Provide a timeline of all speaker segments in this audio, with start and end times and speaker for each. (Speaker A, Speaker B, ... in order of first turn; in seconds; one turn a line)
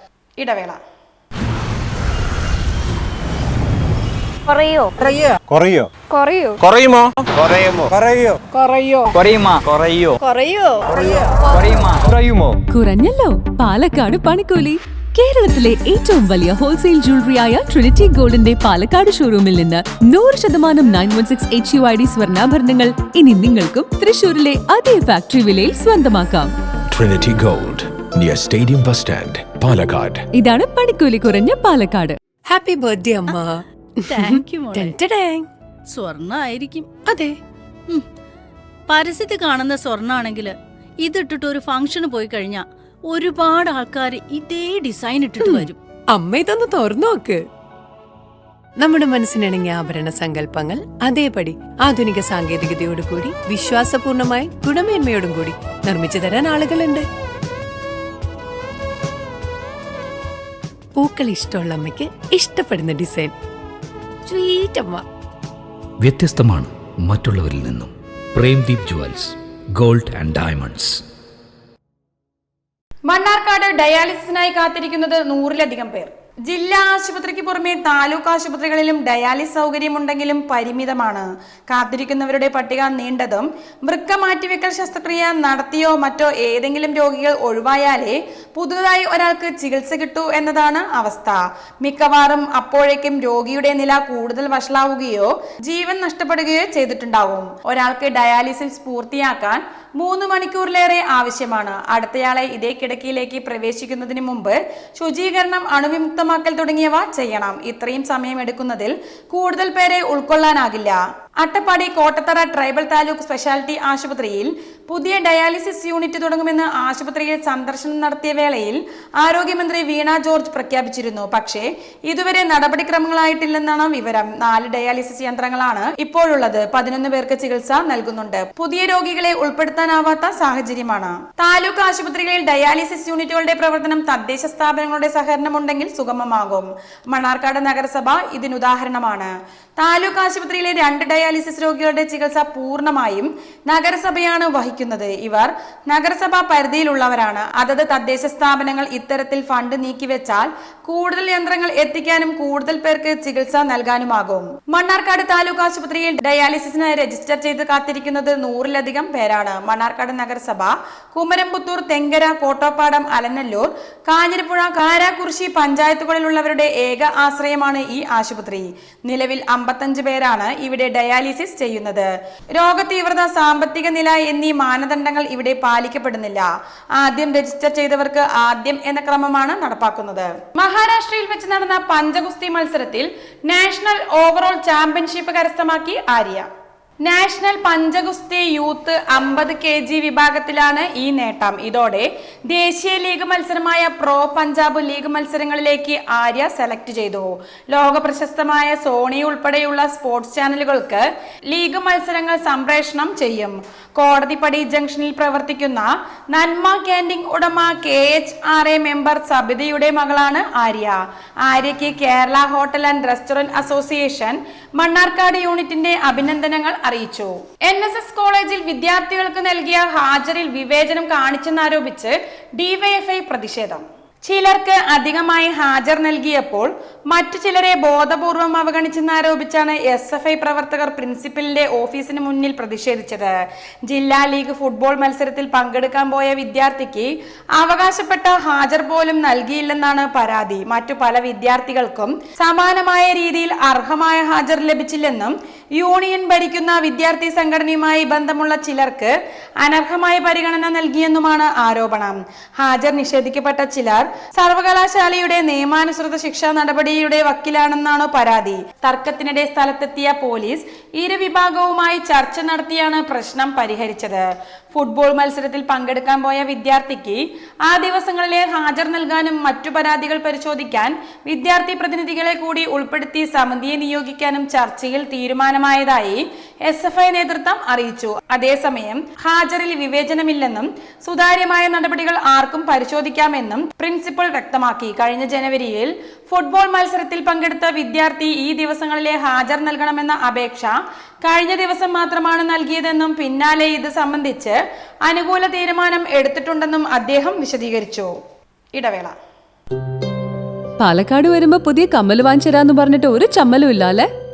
Speaker A: 0.4-0.8
Speaker B: 4.5-4.9
Speaker C: 5.5-5.9
Speaker B: 6.1-6.6
Speaker C: 6.6-8.4
Speaker B: 8.6-9.0
Speaker C: 9.1-10.2
Speaker B: 10.2-11.2
Speaker C: 11.0-12.6
Speaker D: 12.7-26.5
Speaker E: 26.9-30.2
Speaker D: 30.3-32.2
Speaker F: 32.5-35.5
Speaker G: 34.1-35.0
Speaker G: 35.9-36.9
Speaker F: 37.1-37.4
Speaker G: 38.9-45.8
Speaker F: 45.4-47.4
Speaker F: 48.8-57.0
Speaker F: 61.0-63.3
Speaker F: 64.3-65.0
Speaker H: 66.0-71.0
Speaker A: 73.1-176.5
Speaker A: 177.0-186.5
Speaker A: 187.0-233.3
Speaker A: 233.9-298.1
Speaker A: 298.8-299.1
Speaker D: 300.8-304.1